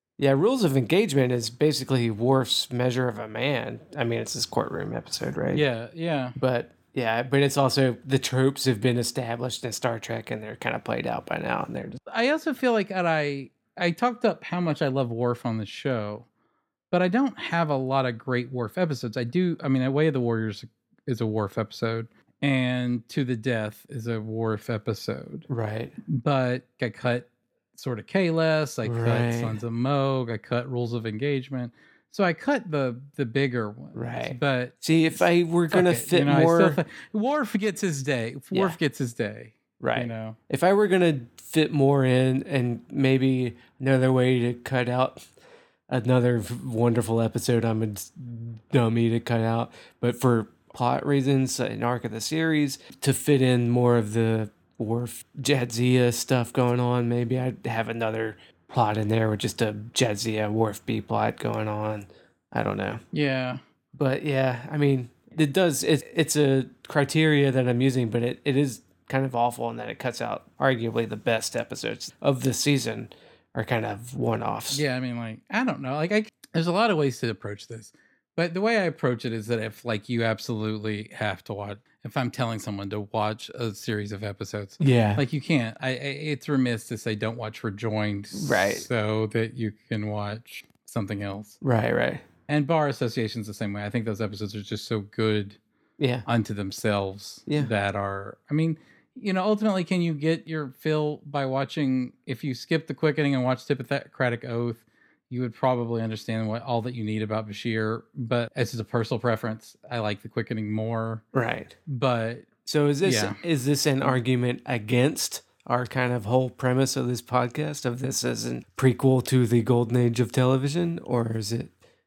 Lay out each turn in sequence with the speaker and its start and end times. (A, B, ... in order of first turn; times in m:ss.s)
0:00.2-0:05.6 A
0:05.5-0:06.4 B
0:06.4-0:12.0 A
0:12.1-0:16.3 B
0:16.9-0:25.5 B
0:25.5-0:26.0 A
0:26.1-0:40.4 B
0:28.8-0:29.6 A
0:33.9-0:36.8 A
0:38.5-0:38.8 A
0:39.8-0:45.2 A
0:45.9-1:03.0 A
1:03.1-1:03.6 B
1:03.9-1:14.8 A
1:14.7-1:31.6 B
1:24.8-1:25.2 A
1:28.3-1:28.9 A
1:31.6-1:32.2 A
1:32.5-1:35.6 B
1:36.0-1:36.2 A
1:36.2-1:51.2 B
1:51.3-1:51.7 A
1:51.9-1:52.5 B
1:52.6-2:01.7 A
1:53.0-1:53.4 B